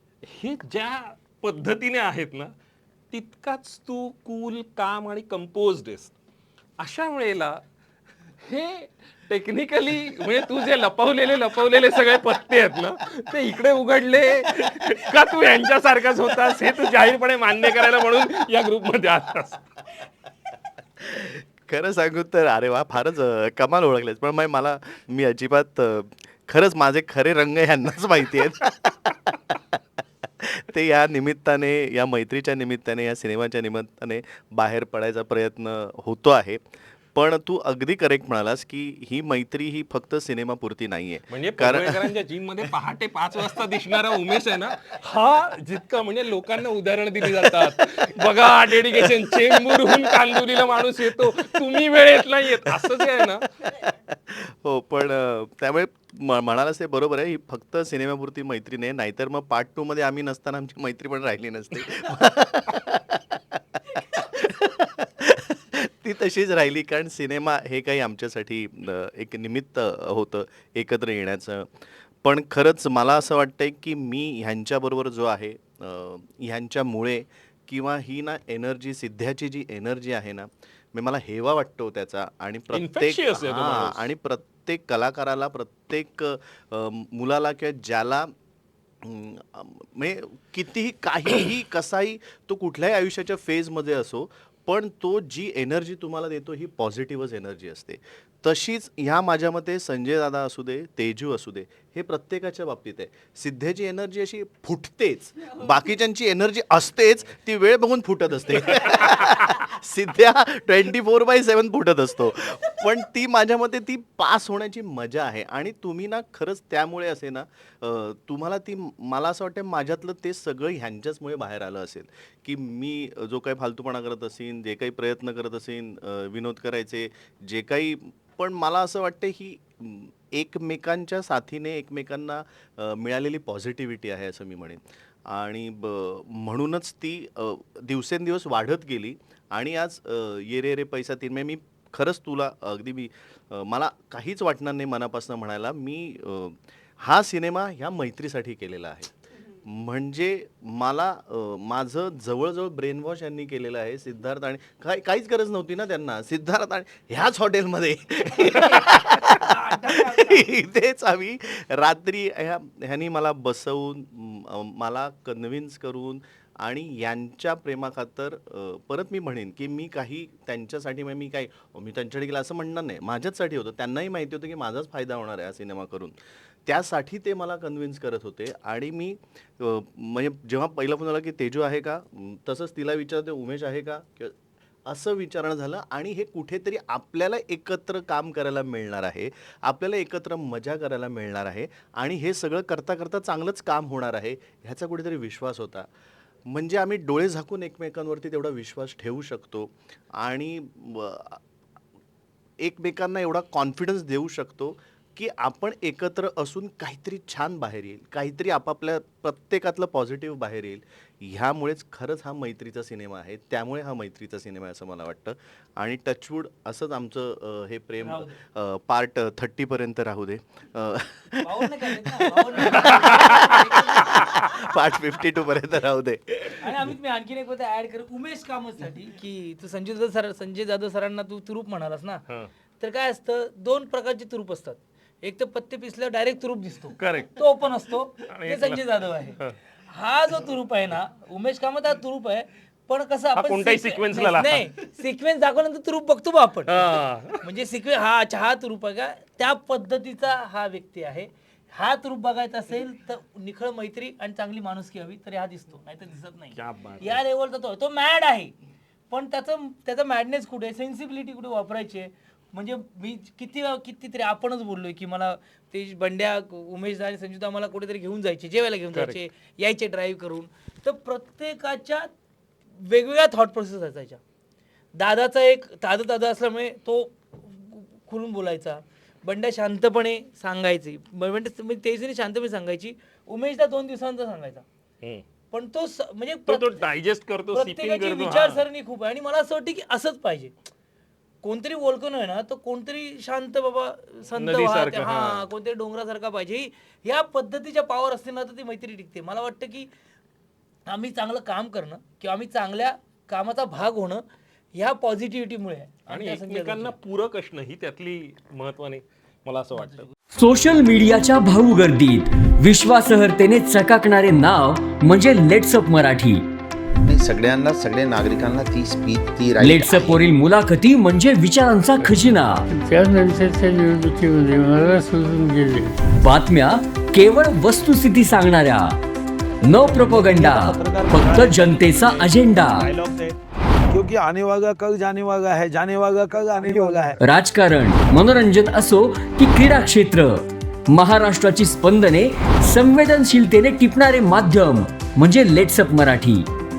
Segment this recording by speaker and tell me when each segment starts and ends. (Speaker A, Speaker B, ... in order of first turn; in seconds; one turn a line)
Speaker A: 0.2-2.5
Speaker A: 3.1-6.1
Speaker A: 6.8-7.6
Speaker A: 8.4-19.6
Speaker B: 21.0-42.1
Speaker A: 41.3-53.4
Speaker B: 52.8-53.2
Speaker B: 53.8-88.3
Speaker A: 82.7-84.1
Speaker B: 89.0-195.9
Speaker C: 158.5-160.5
Speaker B: 196.5-201.4
Speaker B: 202.6-226.8
Speaker C: 218.0-218.4
Speaker C: 221.4-224.2
Speaker C: 226.6-232.2
Speaker C: 232.8-258.6
Speaker A: 237.0-237.4
Speaker A: 238.2-239.6
Speaker A: 243.3-244.7
Speaker A: 246.7-247.5
Speaker A: 256.5-257.2
Speaker C: 259.1-272.1
Speaker A: 268.9-269.2
Speaker C: 272.7-274.2
Speaker C: 274.9-284.6
Speaker C: 285.5-286.8
Speaker A: 286.5-288.6
Speaker C: 287.5-290.6
Speaker C: 291.4-299.9
Speaker A: 294.3-295.5
Speaker C: 300.9-306.9
Speaker A: 306.1-310.1
Speaker D: 310.3-316.4
Speaker E: 317.0-320.2
Speaker D: 319.6-322.6
Speaker F: 322.7-325.9
Speaker D: 326.2-329.0
Speaker D: 329.6-332.9
Speaker G: 329.8-333.4
Speaker G: 333.9-337.2
Speaker D: 337.2-346.4